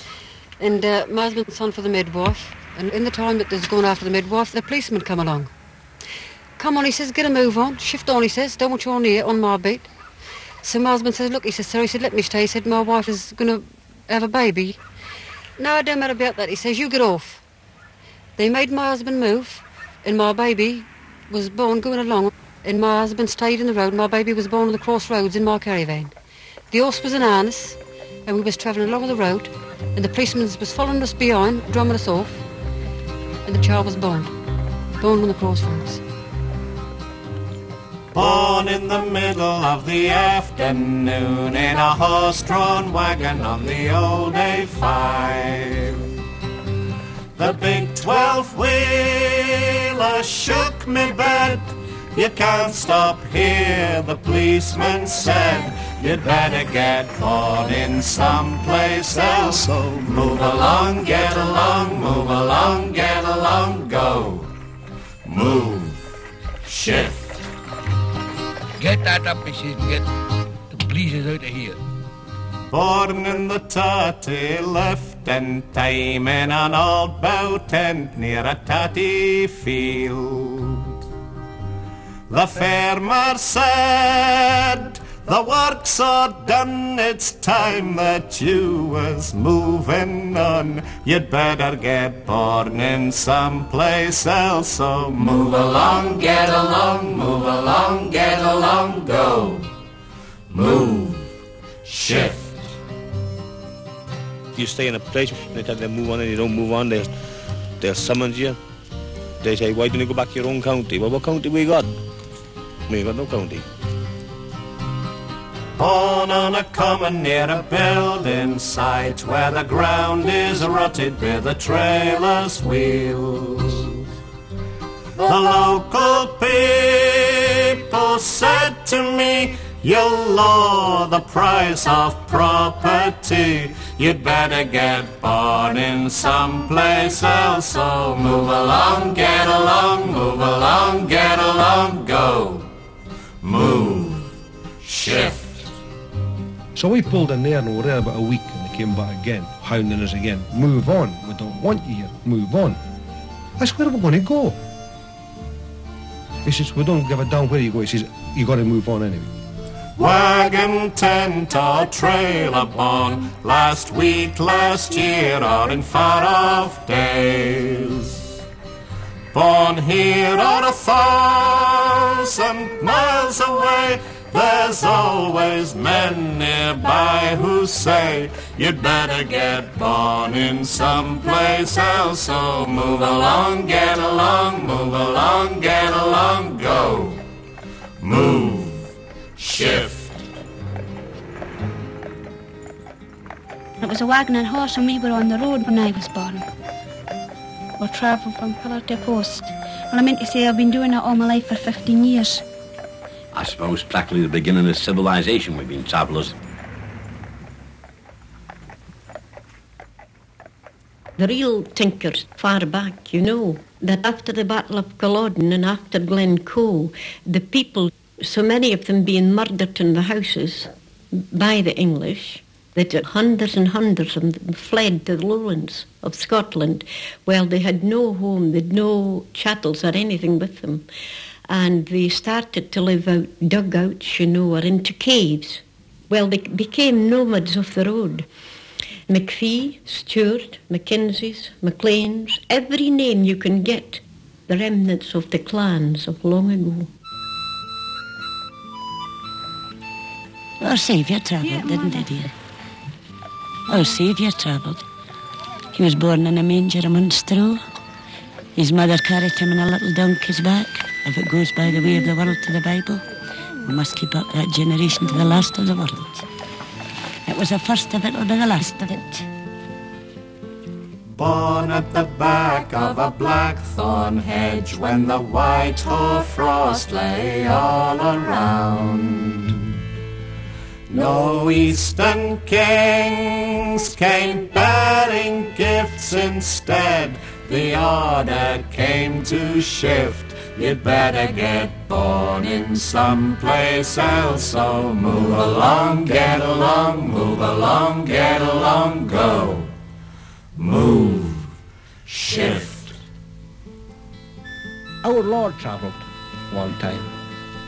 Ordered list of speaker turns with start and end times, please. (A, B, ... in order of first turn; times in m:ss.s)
0:00.6-0:05.5 A
0:06.6-0:09.9 A
0:10.6-0:14.8 A
0:15.6-0:17.4 A
0:18.4-0:26.1 A
0:26.7-0:32.4 A
0:33.4-0:34.3 A
0:35.0-0:36.0 A
0:38.1-0:46.1 B
0:47.4-1:04.5 B
1:05.2-1:06.0 B
1:06.6-1:07.4 B
1:08.8-1:10.0 C
1:10.7-1:11.8 C
1:12.7-1:21.0 B
1:22.3-1:39.7 B
1:40.5-1:41.3 B
1:41.8-1:42.5 B
1:44.6-1:47.1 D
1:47.8-1:48.6 D
1:49.4-1:51.8 D
1:52.9-1:53.6 D
1:55.8-2:04.1 B
2:05.2-2:22.7 B
2:23.4-2:24.3 B
2:24.8-2:25.6 B
2:26.8-2:32.8 E
2:33.6-2:34.6 E
2:36.4-2:39.3 E
2:40.0-2:48.3 B
2:49.3-3:07.2 B
3:08.0-3:08.8 B
3:09.4-3:10.2 B
3:13.8-3:16.4 F
3:17.8-3:22.4 F
3:23.3-3:26.3 G
3:31.2-3:50.8 H
3:51.5-3:58.2 H
3:59.1-4:06.9 H
4:10.6-4:12.3 I
4:13.7-4:14.8 I
4:15.7-4:17.6 I
4:18.6-4:23.0 I
4:23.6-4:26.2 I
4:27.3-4:29.1 I
4:31.1-4:39.8 B
4:40.9-4:59.7 B
5:00.6-5:01.5 B
5:02.0-5:02.9 B
5:05.0-5:06.0 C
5:06.5-5:07.0 C